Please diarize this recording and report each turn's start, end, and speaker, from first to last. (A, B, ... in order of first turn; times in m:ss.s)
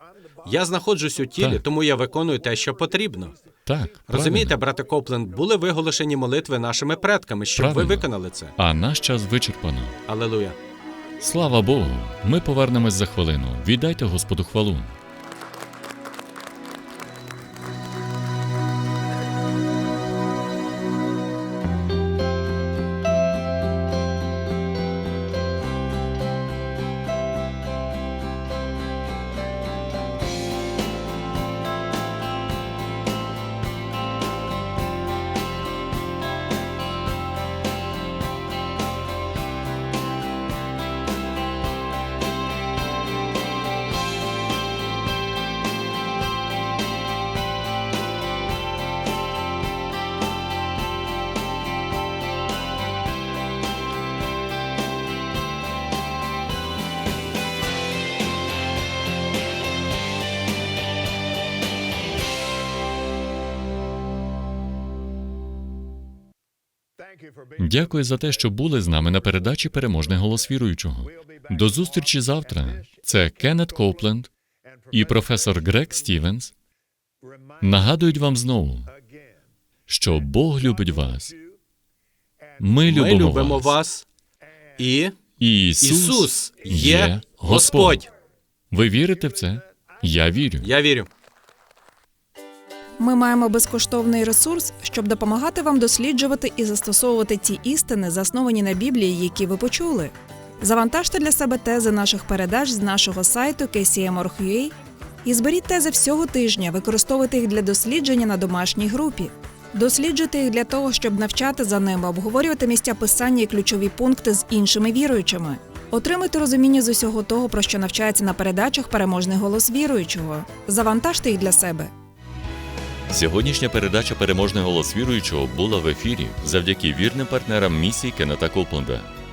0:00.4-0:03.3 A
0:01.4-0:01.6 B
0:03.6-0:04.6 B
0:04.1-0:08.5 A
0:07.6-0:10.0 B
0:10.1-0:10.6 A
0:11.2-0:14.9 B
1:07.6-1:14.3 B
1:14.9-1:16.5 B
1:17.6-1:18.9 B
1:19.9-1:21.4 B
1:22.6-1:23.8 B
1:22.8-1:24.0 A
1:24.8-1:25.2 A
1:25.4-1:28.0 B
1:25.8-1:28.1 A
1:28.7-1:30.7 B
1:30.6-1:31.1 A
1:33.0-1:44.7 C
1:45.2-2:01.9 C
2:03.1-2:09.1 B